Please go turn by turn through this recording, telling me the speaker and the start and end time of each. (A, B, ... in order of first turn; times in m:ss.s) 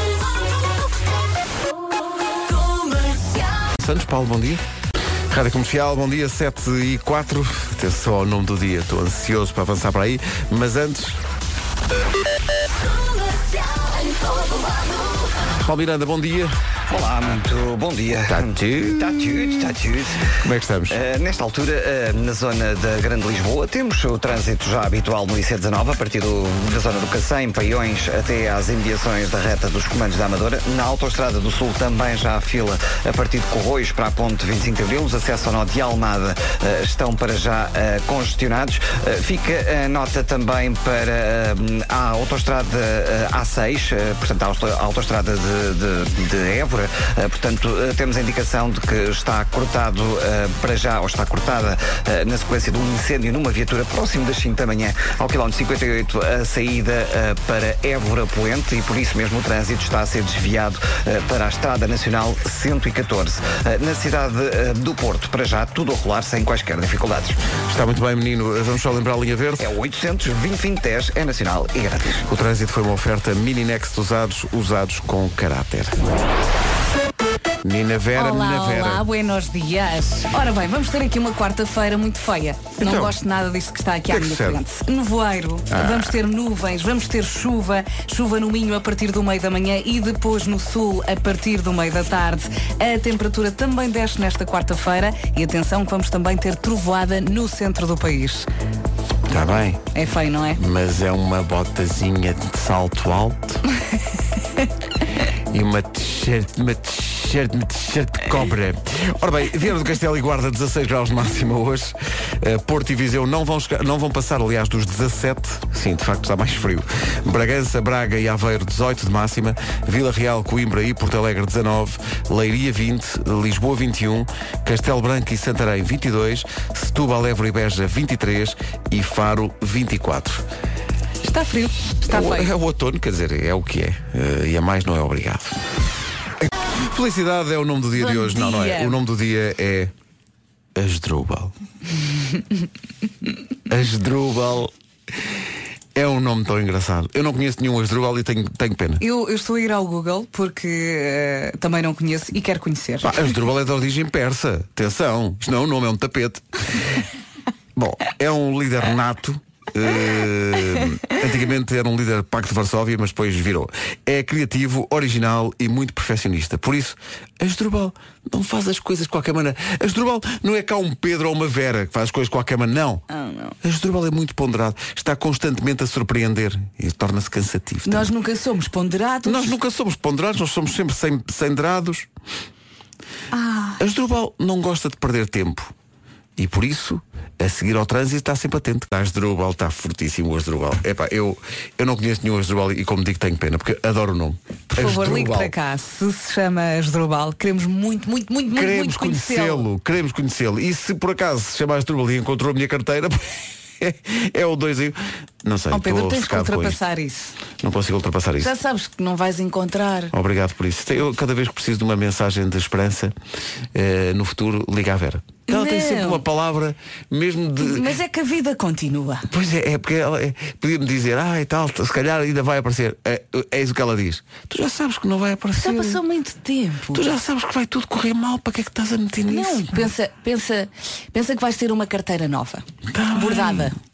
0:03.8-0:04.6 A
0:05.3-0:11.2 A
0:15.6-0:16.6 A
0:16.9-0:20.2 B
0:18.2-0:19.7 A
0:20.3-0:21.0 A
0:20.9-1:07.4 B
1:07.7-1:09.7 A
1:09.6-1:12.2 B
1:12.3-1:16.0 A
1:17.6-1:19.0 A
1:18.1-1:38.5 C
1:22.8-1:23.2 A
1:24.1-1:24.6 A
1:25.7-1:26.2 A
1:39.3-1:39.8 A
1:39.9-1:40.6 C
1:40.6-1:43.6 A
1:45.5-2:10.4 A
2:11.2-2:12.5 C
2:12.0-2:15.6 A
2:16.4-2:19.9 A
2:18.0-2:19.0 C
2:20.8-2:21.5 A
2:23.7-2:24.7 A
2:25.9-2:29.0 A
2:29.0-2:33.2 C
2:33.0-2:36.4 A
2:37.8-2:53.0 A
2:53.1-2:53.5 C
2:53.6-2:58.1 A
2:57.8-2:59.6 C
2:59.2-3:02.1 A
3:03.3-3:03.8 C
3:03.8-3:05.7 A
3:06.4-3:15.5 A
3:14.7-3:19.7 C
3:18.5-3:26.8 A
3:25.7-3:27.3 C
3:27.6-3:28.5 A
3:28.4-3:30.1 C
3:30.1-3:33.2 A
3:33.7-3:37.9 A
3:35.5-3:36.2 C
3:37.6-3:39.3 C
3:39.3-3:46.0 A
3:45.6-3:47.1 C
3:46.9-3:49.9 A
3:49.3-3:53.8 C
3:52.9-3:53.8 A